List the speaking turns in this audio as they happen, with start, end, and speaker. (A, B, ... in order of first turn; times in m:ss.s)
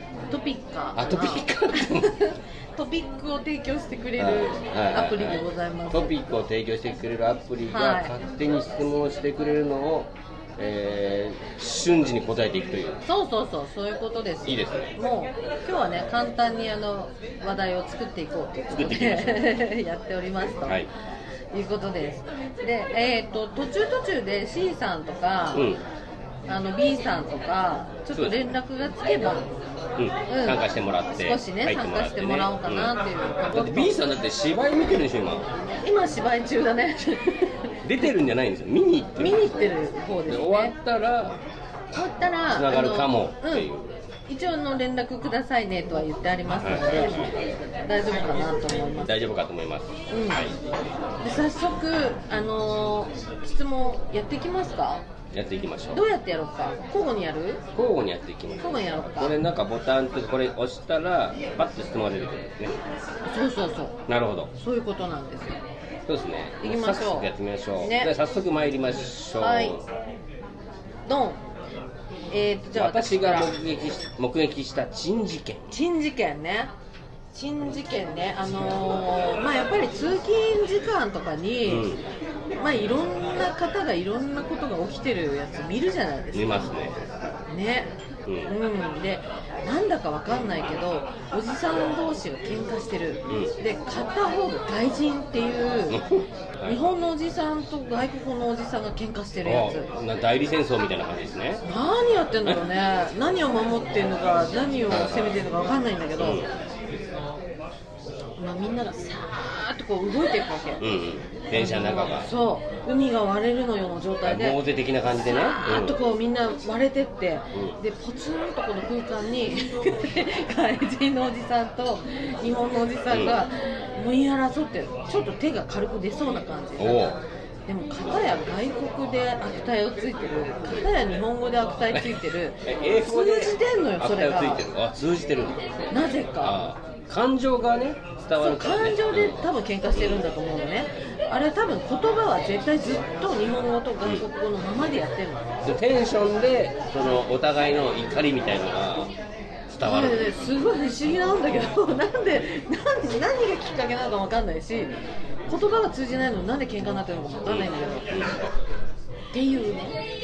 0:00.3-0:06.1 A
0:00.9-0:02.2 B
0:04.2-0:13.0 B
0:07.7-0:08.1 A
0:13.0-0:20.8 A
0:14.4-0:14.9 B
0:18.7-0:19.6 B
0:21.5-0:25.7 A
0:25.5-0:25.8 B
0:26.5-0:29.5 A
0:28.1-0:28.5 B
0:30.0-0:32.9 B
0:30.3-0:30.6 A
0:31.2-0:34.0 A
0:33.5-0:35.5 B
0:35.8-0:37.6 A
0:37.8-0:39.4 B
0:39.2-0:40.7 A
0:40.3-0:41.4 B
0:41.9-0:43.7 A
0:42.5-0:43.9 B
0:44.3-0:47.2 A
0:46.6-0:47.4 B
0:47.8-0:49.2 A
0:49.0-0:50.6 B
0:50.1-0:50.4 A
0:51.2-0:55.0 A
0:55.3-0:56.0 B
0:55.9-0:57.6 A
0:57.7-1:02.8 B
0:58.6-0:59.3 A
1:03.3-1:04.0 A
1:04.1-1:04.5 B
1:04.6-1:05.6 A
1:06.1-1:09.8 B
1:06.6-1:08.1 A
1:09.4-1:09.8 A
1:11.0-1:11.4 A
1:12.3-1:13.5 A
1:12.7-1:15.7 B
1:15.7-1:16.7 A
1:17.3-1:21.9 A
1:21.6-1:22.0 B
1:22.6-1:26.7 A
1:26.3-1:27.0 B
1:27.5-1:27.9 A
1:28.2-1:28.5 B
1:28.4-1:36.0 A
1:33.3-1:33.5 B
1:35.9-1:36.9 B
1:36.7-1:39.9 A
1:39.4-1:41.6 B
1:41.6-1:46.4 A
1:44.9-1:45.4 B
1:46.2-1:46.5 B
1:48.4-1:50.8 A
1:50.8-1:52.3 B
1:51.5-1:54.6 A
1:54.2-1:56.0 B
1:55.2-2:07.0 A
2:03.1-2:03.4 B
2:06.8-2:07.2 B
2:07.7-2:14.6 A
2:11.9-2:15.8 B
2:15.9-2:16.6 A
2:16.4-2:20.2 B
2:18.4-2:25.5 A
2:25.6-2:29.1 B
2:29.7-2:30.3 B
2:29.8-2:34.9 A
2:35.5-2:38.0 A
2:37.4-2:38.5 B
2:39.3-2:40.0 A